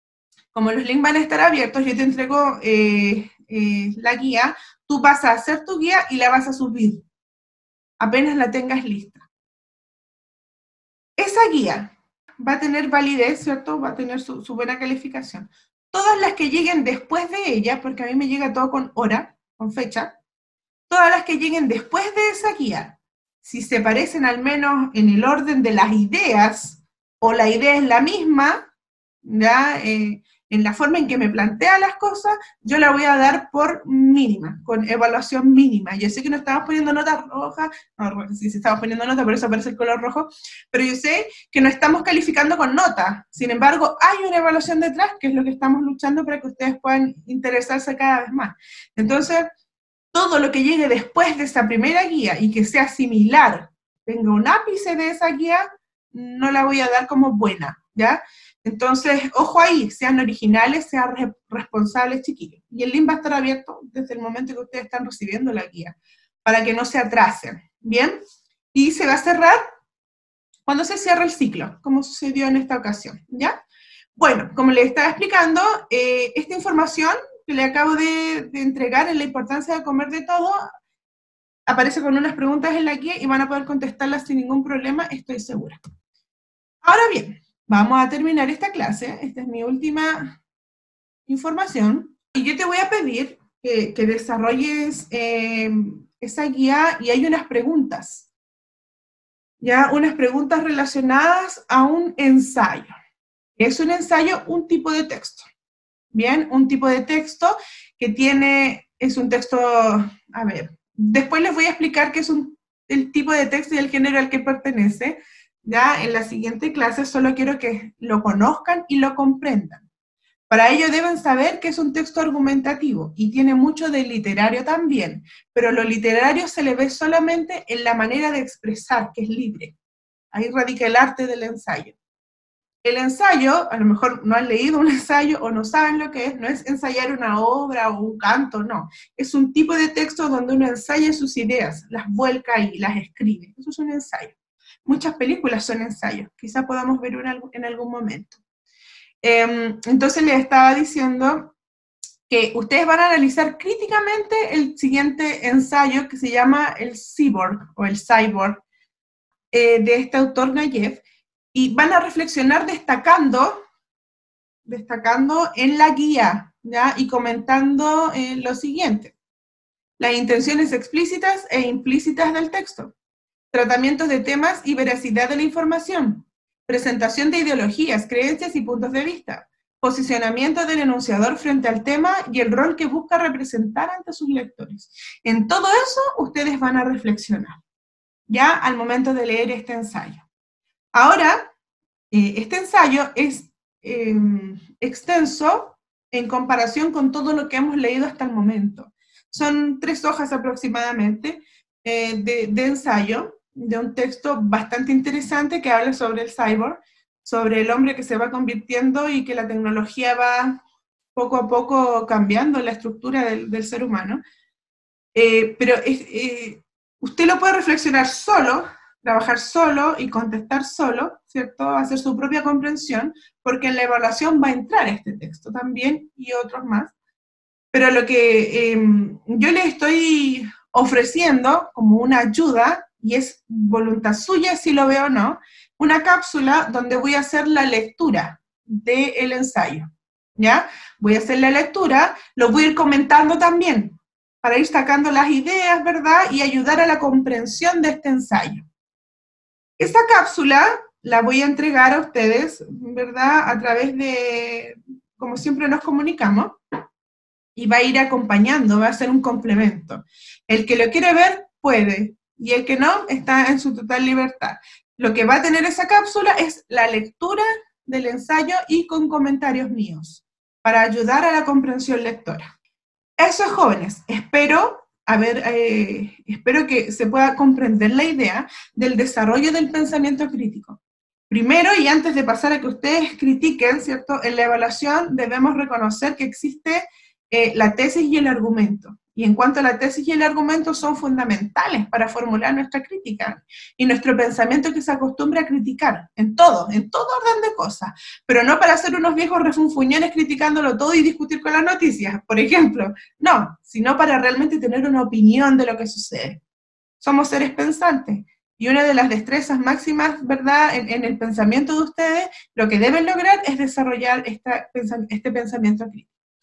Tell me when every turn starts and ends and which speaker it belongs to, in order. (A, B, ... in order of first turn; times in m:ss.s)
0:00.5-0:07.0 A
0:08.0-0:09.2 A
0:11.2-0:20.2 A
0:20.9-0:28.7 A
0:29.2-0:49.5 A
0:50.1-1:08.2 A
1:08.7-1:09.6 A
1:10.7-1:13.6 A
1:14.2-1:20.6 A
1:21.7-1:25.8 A
1:26.8-1:30.4 A
1:31.3-1:38.3 A
1:39.6-1:42.9 A
1:43.6-1:45.4 A
1:46.1-1:59.9 A
2:00.5-2:09.8 A
2:10.3-2:12.0 A
2:12.8-2:24.4 A
2:24.9-2:28.4 A
2:29.2-2:31.6 A
2:32.3-2:38.6 A
2:39.5-2:41.0 A
2:41.5-2:43.6 A
2:44.7-2:49.2 A
2:50.0-2:52.9 A
2:53.5-3:07.6 A
3:08.3-3:10.2 A
3:10.9-3:11.5 A
3:12.1-3:30.6 A
3:31.2-3:34.2 A
3:35.2-3:46.9 A
3:47.7-4:08.7 A
4:09.8-4:16.6 A
4:17.6-4:32.5 A
4:33.2-4:40.8 A
4:41.3-5:06.4 A
5:07.0-5:16.1 A